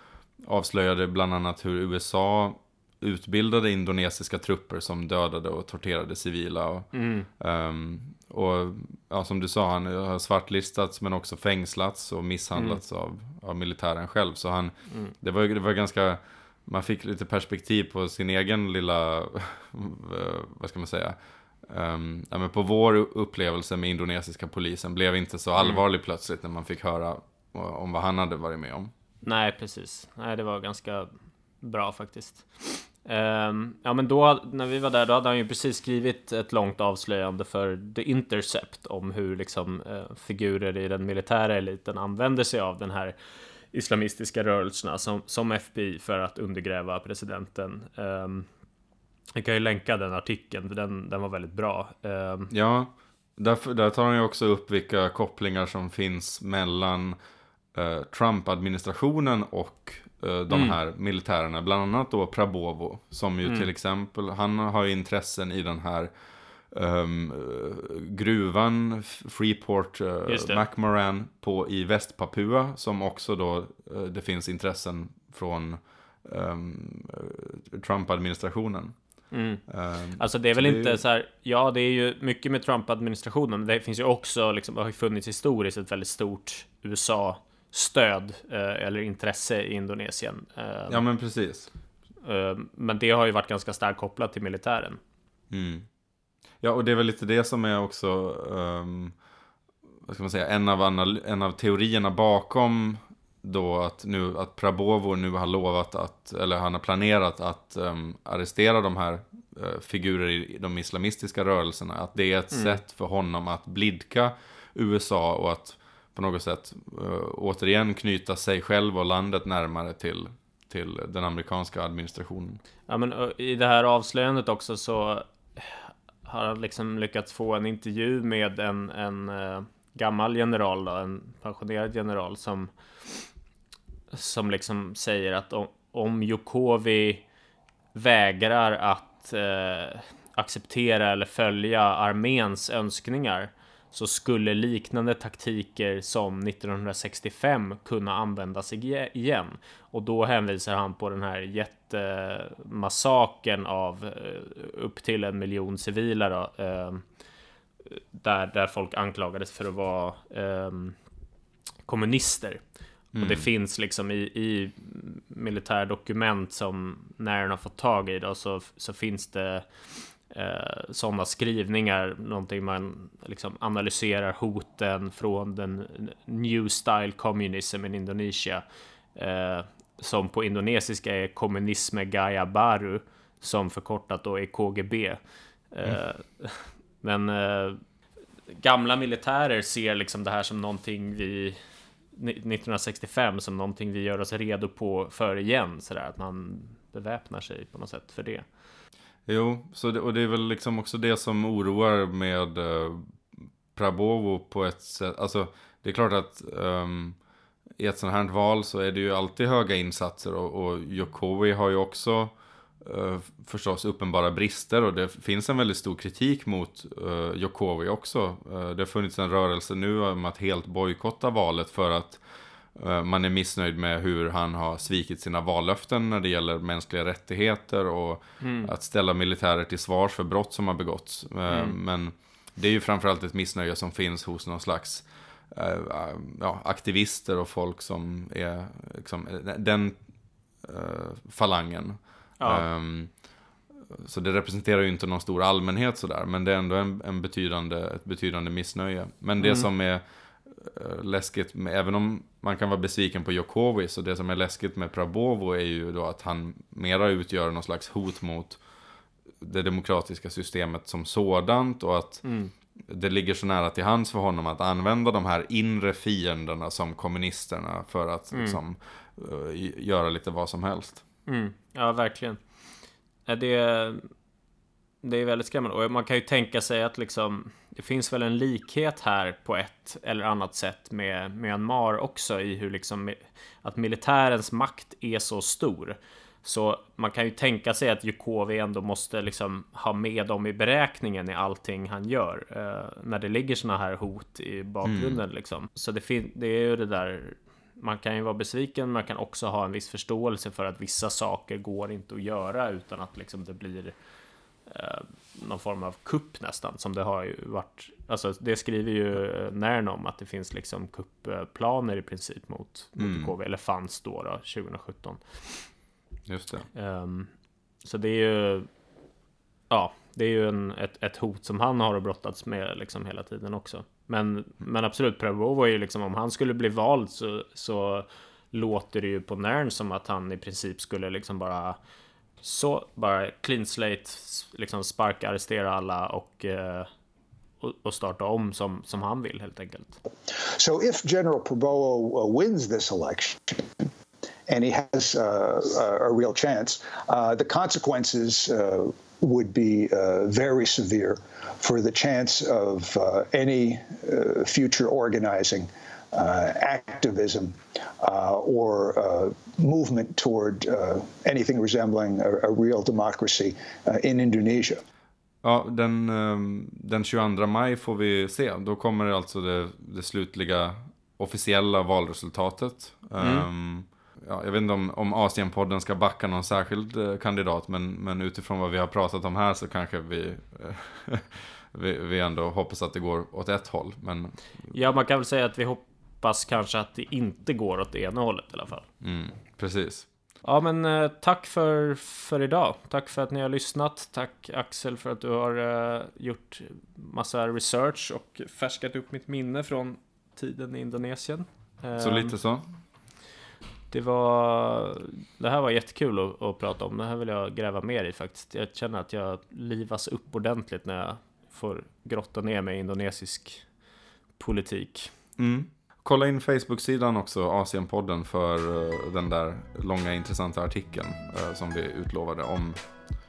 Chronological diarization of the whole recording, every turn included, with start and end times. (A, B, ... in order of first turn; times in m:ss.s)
0:00.4-0:28.9 A
0:06.9-0:07.3 B
0:12.6-0:12.8 B
0:29.2-0:43.1 B
0:43.7-0:48.5 B
0:49.4-0:52.5 B
0:52.5-0:57.2 A
0:57.7-1:06.1 A
1:00.5-1:00.8 B
1:03.4-1:03.7 B
1:06.7-1:19.0 A
1:10.3-1:10.6 B
1:19.3-1:19.6 B
1:19.7-1:21.0 A
1:20.2-1:31.0 B
1:30.9-1:31.7 A
1:32.2-1:35.0 B
1:35.5-1:35.9 A
1:36.6-1:39.2 A
1:40.1-2:02.6 A
1:52.5-1:52.8 B
2:02.9-2:12.7 B
2:14.1-2:17.2 B
2:17.9-2:37.0 B
2:37.9-2:41.0 B
2:41.9-2:42.6 B
2:43.2-2:43.4 A
2:43.2-2:58.6 B
2:59.2-3:05.2 B
3:05.7-3:07.8 B
3:08.5-3:11.6 B
3:12.1-3:18.4 B
3:19.3-3:23.1 A
3:23.8-3:27.2 A
3:27.8-3:42.2 A
3:42.8-4:00.0 A
3:48.4-3:48.7 B
3:51.5-3:51.8 B
4:00.6-4:03.1 A
4:03.9-4:18.6 A
4:09.4-4:09.7 B
4:19.4-4:22.2 A
4:22.2-4:22.5 B
4:22.9-4:31.0 A
4:28.3-4:28.6 B
4:31.3-4:32.4 B
4:33.3-4:34.1 B
4:35.0-5:03.9 B
4:54.8-4:55.2 A
5:04.7-5:15.6 B
5:13.0-5:13.3 A
5:16.3-5:16.7 A
5:16.7-5:17.3 B
5:17.8-5:18.7 B
5:19.7-5:31.8 B
5:32.4-5:36.9 B
5:37.6-5:40.0 B
5:40.4-5:43.9 C
5:44.5-6:04.8 C
6:05.4-6:24.4 A
6:13.2-6:13.5 B
6:24.7-6:28.8 B
6:29.0-6:30.1 A
6:30.4-6:42.4 B
6:42.0-6:42.7 A
6:43.9-6:53.7 B
6:54.4-6:55.1 B
6:55.4-7:03.1 A